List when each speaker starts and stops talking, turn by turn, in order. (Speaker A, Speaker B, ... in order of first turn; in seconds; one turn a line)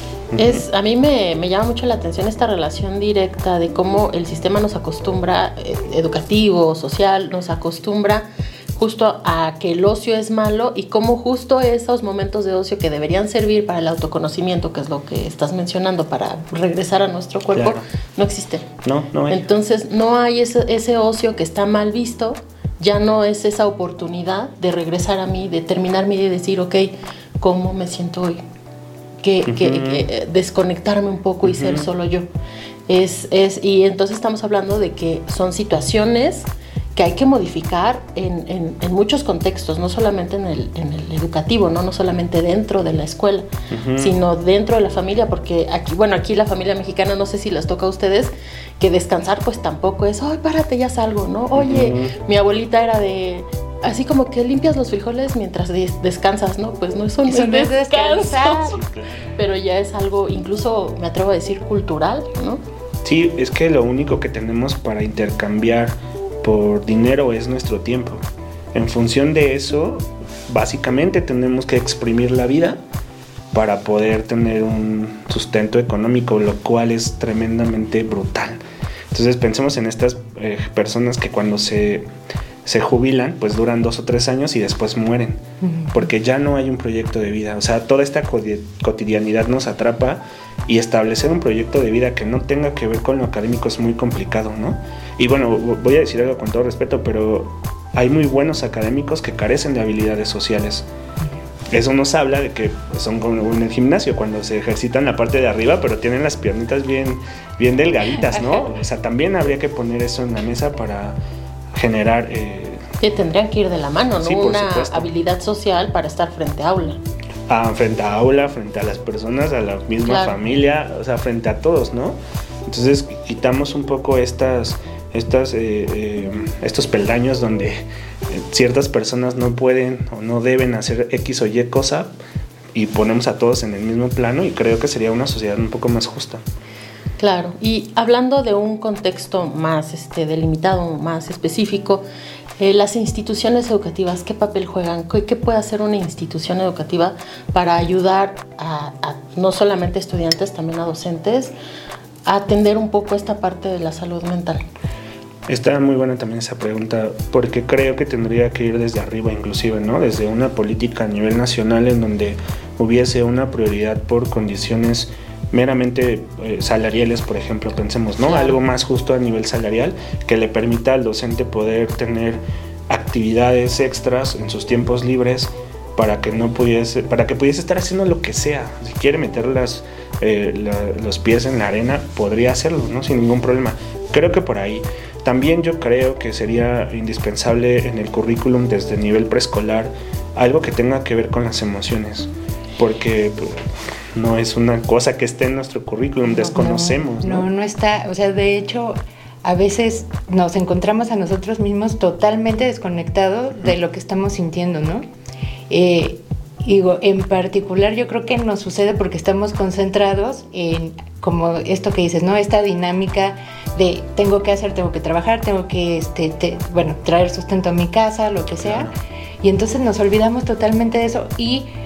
Speaker A: 0.3-0.6
Speaker B: 0.4-18.7
Speaker A: 17.5-17.9
Speaker A: 18.8-19.5
Speaker B: 19.3-28.4
Speaker B: 29.2-32.3
Speaker A: 29.5-30.1
Speaker A: 31.4-31.9
Speaker B: 32.9-58.8
Speaker A: 43.7-44.1
Speaker A: 51.5-52.1
Speaker C: 57.3-58.8
Speaker A: 58.8-59.3
Speaker B: 59.4-62.6
Speaker A: 63.0-72.8
Speaker A: 73.5-82.1
Speaker A: 82.7-100.9
Speaker C: 85.6-85.9
Speaker A: 101.7-111.2
Speaker C: 108.3-108.7
Speaker A: 111.7-112.8
Speaker B: 113.0-117.0
Speaker A: 114.2-115.1
Speaker A: 117.5-132.1
Speaker B: 120.1-120.4
Speaker A: 132.7-136.4
Speaker B: 137.2-142.1
Speaker B: 142.6-151.5
Speaker B: 152.3-154.6
Speaker A: 155.5-197.5
Speaker C: 196.3-205.1
Speaker C: 205.7-221.7
Speaker A: 218.6-218.9